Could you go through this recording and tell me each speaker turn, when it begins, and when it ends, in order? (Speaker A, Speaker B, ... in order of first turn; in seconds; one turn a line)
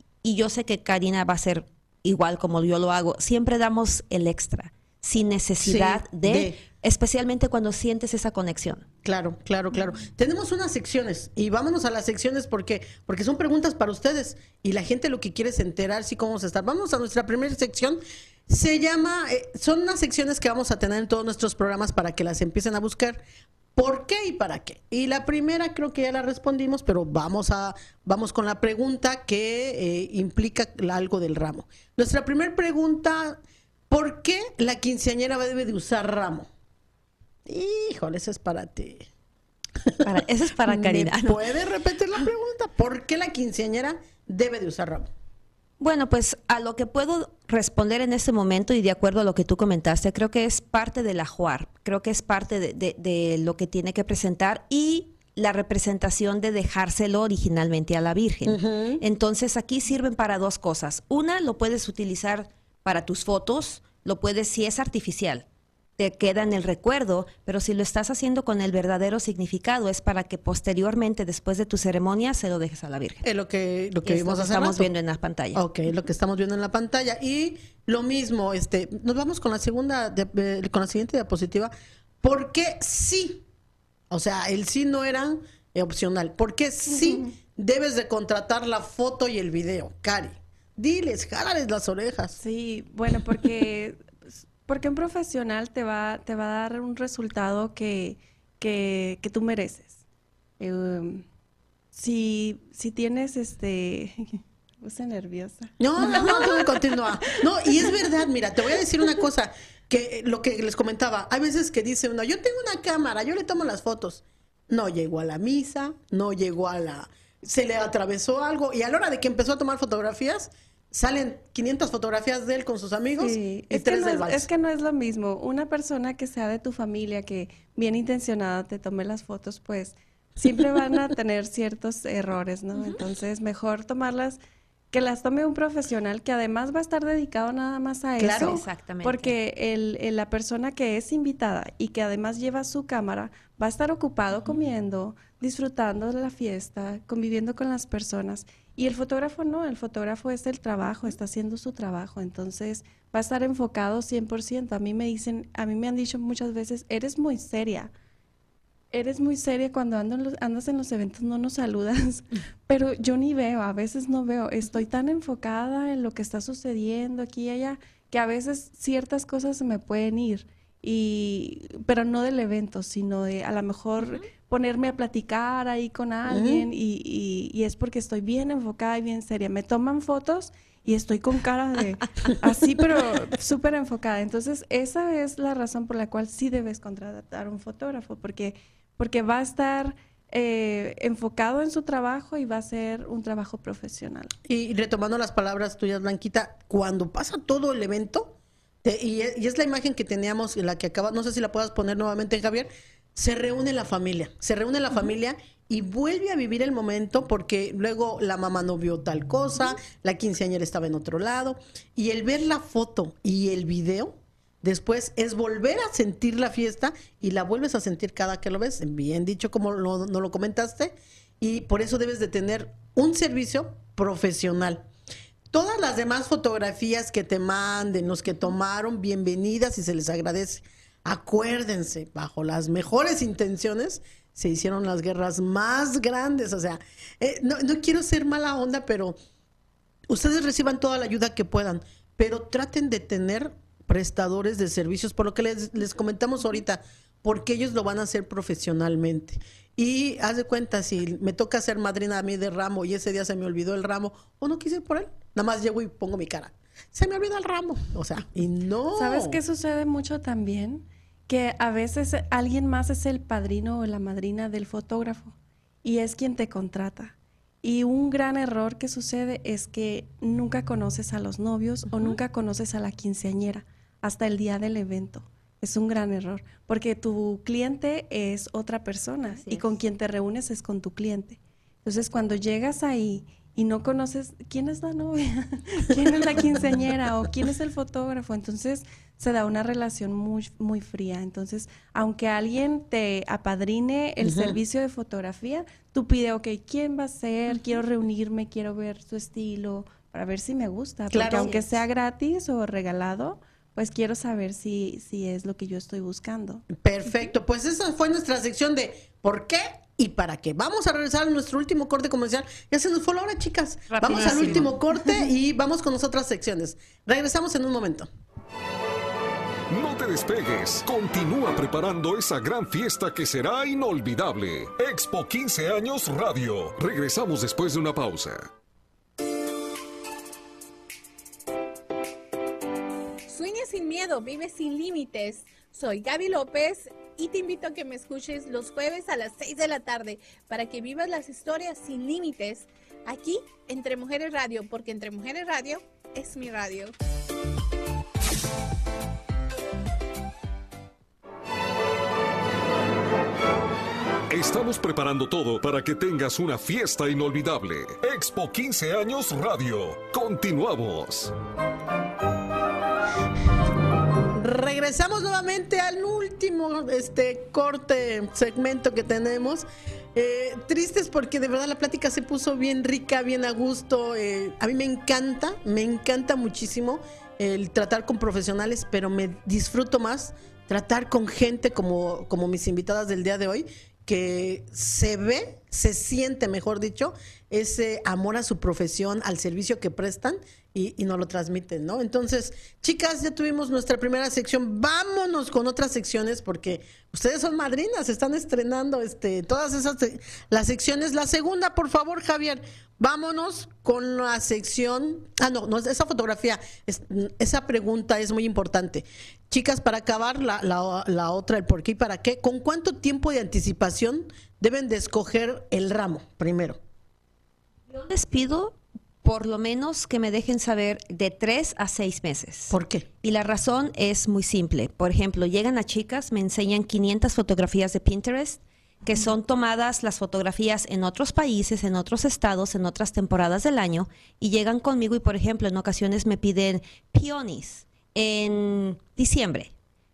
Speaker A: 0.2-8.9
Speaker B: 5.6-6.6
Speaker B: 9.1-23.2
Speaker B: 23.8-36.5
Speaker B: 37.5-39.1
Speaker B: 39.8-40.1
Speaker A: 40.0-41.4
Speaker B: 40.6-45.1
Speaker A: 45.8-65.5
Speaker B: 58.5-59.0
Speaker A: 66.0-73.2
Speaker B: 73.2-74.9
Speaker A: 74.0-75.6
Speaker B: 75.5-81.7
Speaker B: 82.2-83.4
Speaker B: 84.1-92.4
Speaker C: 86.9-87.3
Speaker C: 92.4-100.0
Speaker C: 100.6-101.3
Speaker C: 101.9-108.1
Speaker B: 105.8-124.5
Speaker C: 123.2-134.4
Speaker A: 132.7-133.0
Speaker C: 134.9-157.9
Speaker B: 138.2-138.6
Speaker A: 138.3-139.3
Speaker C: 158.9-194.3
Speaker B: 176.3-176.7
Speaker B: 194.5-224.9
Speaker B: 225.5-239.2
Speaker B: 240.1-259.4
Speaker C: 259.0-306.7
Speaker A: 271.9-272.2
Speaker A: 279.3-279.7
Speaker B: 294.2-294.6
Speaker A: 297.5-297.8
Speaker B: 301.1-301.5
Speaker B: 306.7-318.1
Speaker A: 313.9-314.7
Speaker C: 314.1-314.8
Speaker D: 319.7-328.5
Speaker E: 333.3-346.9
Speaker D: 354.3-361.3
Speaker B: 364.3-416.8
Speaker A: 417.9-439.7
Speaker B: 422.7-423.1